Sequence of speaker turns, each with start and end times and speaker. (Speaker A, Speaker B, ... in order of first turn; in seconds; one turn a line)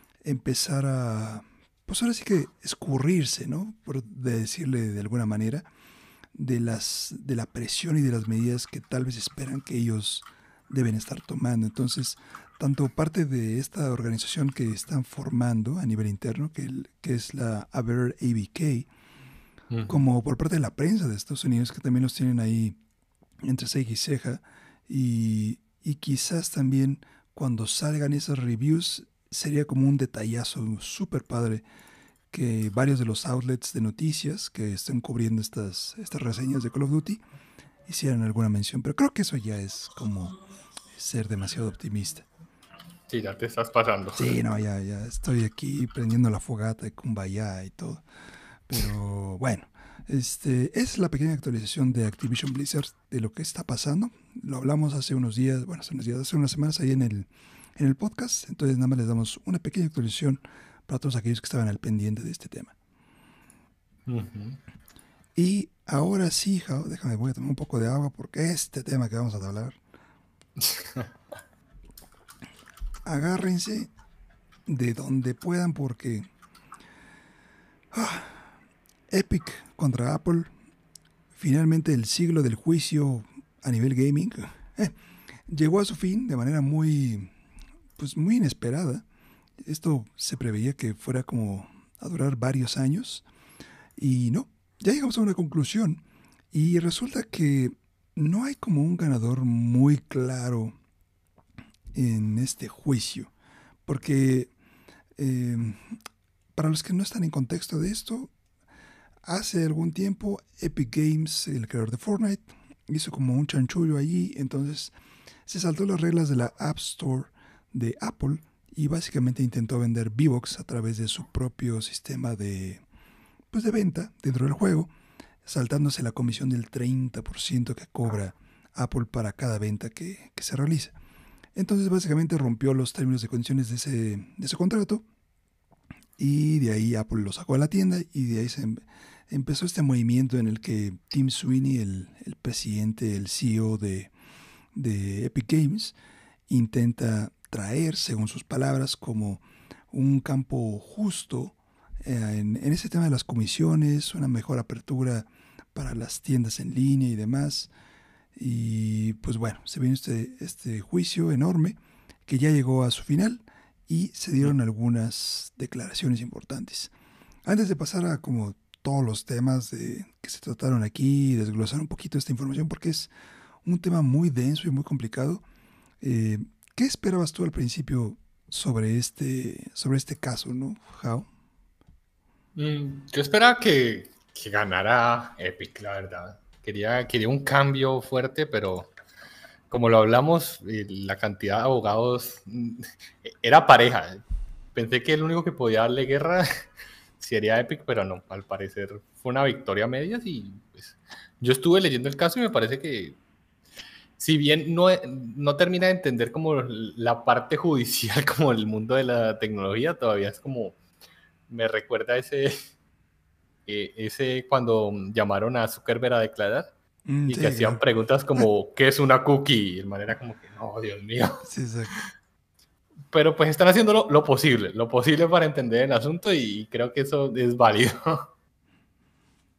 Speaker A: 0.2-5.7
Speaker A: 6.3-18.9
Speaker B: 19.7-20.0
Speaker A: 19.9-22.8
Speaker A: 23.4-31.6
Speaker A: 32.3-37.2
Speaker A: 37.9-40.4
Speaker A: 40.9-42.2
Speaker B: 43.1-44.4
Speaker A: 44.1-48.0
Speaker A: 48.7-62.7
Speaker B: 64.1-64.6
Speaker A: 65.3-69.8
Speaker B: 70.6-71.1
Speaker A: 73.0-73.9
Speaker A: 74.7-76.3
Speaker A: 77.9-78.5
Speaker A: 79.1-80.5
Speaker A: 81.3-85.0
Speaker A: 85.5-87.3
Speaker A: 88.0-89.0
Speaker A: 89.6-93.2
Speaker A: 94.0-100.8
Speaker A: 101.9-103.3
Speaker A: 103.8-104.5
Speaker A: 105.2-106.0
Speaker A: 106.5-108.3
Speaker A: 109.2-114.9
Speaker A: 115.5-122.8
Speaker A: 123.5-124.9
Speaker A: 125.4-130.9
Speaker A: 131.5-135.0
Speaker A: 136.2-144.1
Speaker A: 144.7-145.9
Speaker A: 146.5-157.7
Speaker A: 158.3-166.9
Speaker A: 167.4-173.1
Speaker A: 173.6-175.4
Speaker A: 176.0-181.3
Speaker B: 182.6-188.9
Speaker B: 189.7-194.2
Speaker B: 194.7-196.5
Speaker B: 197.2-203.2
Speaker B: 204.2-210.8
Speaker B: 211.5-212.7
Speaker B: 213.7-216.7
Speaker A: 217.1-217.8
Speaker B: 217.3-222.1
Speaker A: 221.4-221.9
Speaker B: 223.1-228.3